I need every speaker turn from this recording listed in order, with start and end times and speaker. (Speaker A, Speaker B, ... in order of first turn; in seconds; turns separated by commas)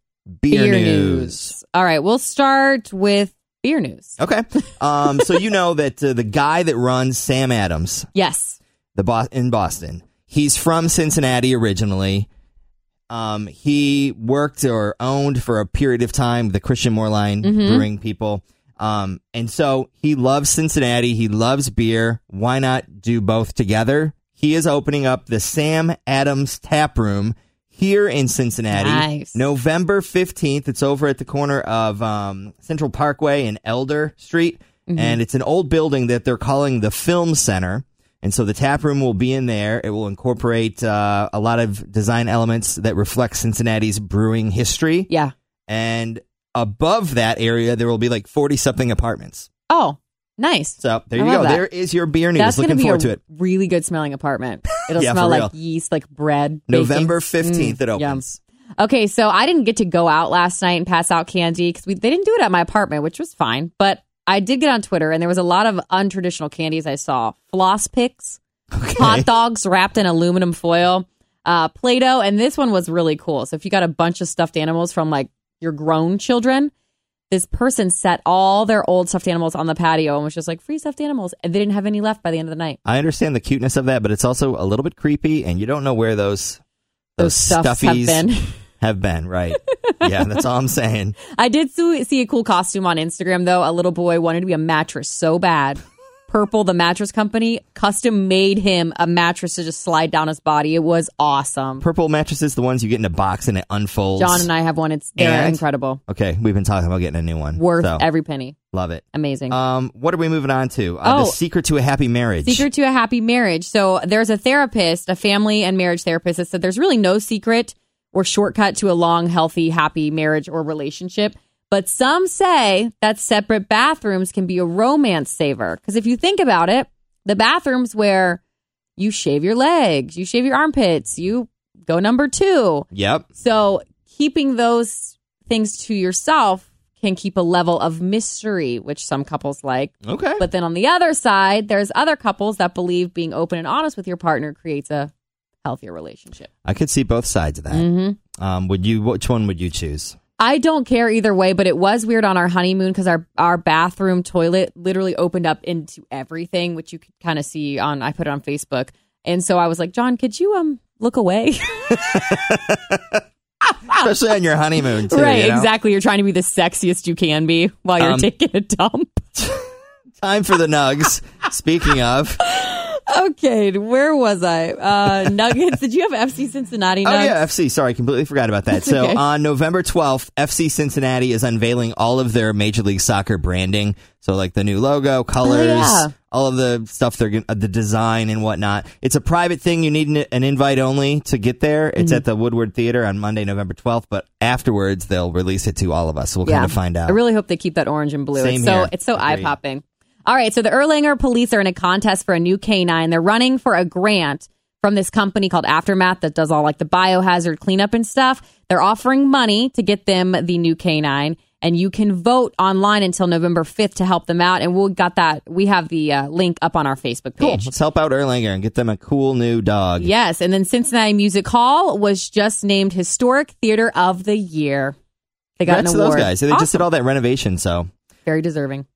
Speaker A: 0.4-1.5, Speaker B: 0.5-4.2, Speaker A: 4.2-8.1, Speaker B: 8.1-8.6, Speaker A: 8.9-12.3, Speaker A: 13.1-45.1, Speaker B: 17.4-17.9, Speaker B: 28.7-29.4, Speaker B: 34.9-35.2, Speaker A: 45.7-49.5, Speaker B: 49.7-51.6, Speaker A: 50.8-53.2, Speaker B: 52.3-58.2, Speaker A: 54.9-55.5, Speaker A: 56.7-58.4, Speaker B: 58.8-68.4, Speaker A: 68.7-69.3, Speaker B: 69.0-76.7, Speaker B: 77.3-82.8, Speaker A: 82.8-86.6, Speaker A: 87.2-88.3, Speaker B: 87.2-88.5, Speaker A: 88.8-91.2, Speaker B: 89.8-90.4, Speaker B: 91.2-101.8, Speaker A: 101.8-104.5, Speaker B: 104.2-106.0, Speaker A: 105.2-108.0, Speaker B: 107.5-108.5, Speaker A: 108.7-112.7, Speaker B: 109.1-109.5, Speaker B: 111.0-111.4, Speaker B: 112.4-128.4, Speaker B: 129.0-145.1, Speaker A: 132.9-133.2, Speaker A: 140.0-140.4, Speaker B: 145.6-146.5, Speaker A: 146.6-150.2, Speaker B: 147.7-148.2, Speaker B: 150.4-162.3, Speaker A: 161.9-163.2, Speaker A: 163.9-165.7, Speaker B: 165.0-169.2, Speaker A: 168.0-168.3, Speaker A: 169.4-169.6, Speaker A: 170.2-172.4, Speaker B: 172.4-177.5, Speaker A: 177.0-197.2, Speaker B: 178.7-179.2, Speaker B: 185.4-186.1, Speaker B: 192.0-192.2, Speaker B: 196.4-217.7, Speaker A: 198.3-199.5, Speaker A: 217.4-220.1, Speaker B: 220.0-224.9, Speaker B: 225.6-226.8, Speaker A: 225.6-227.9, Speaker B: 228.2-228.8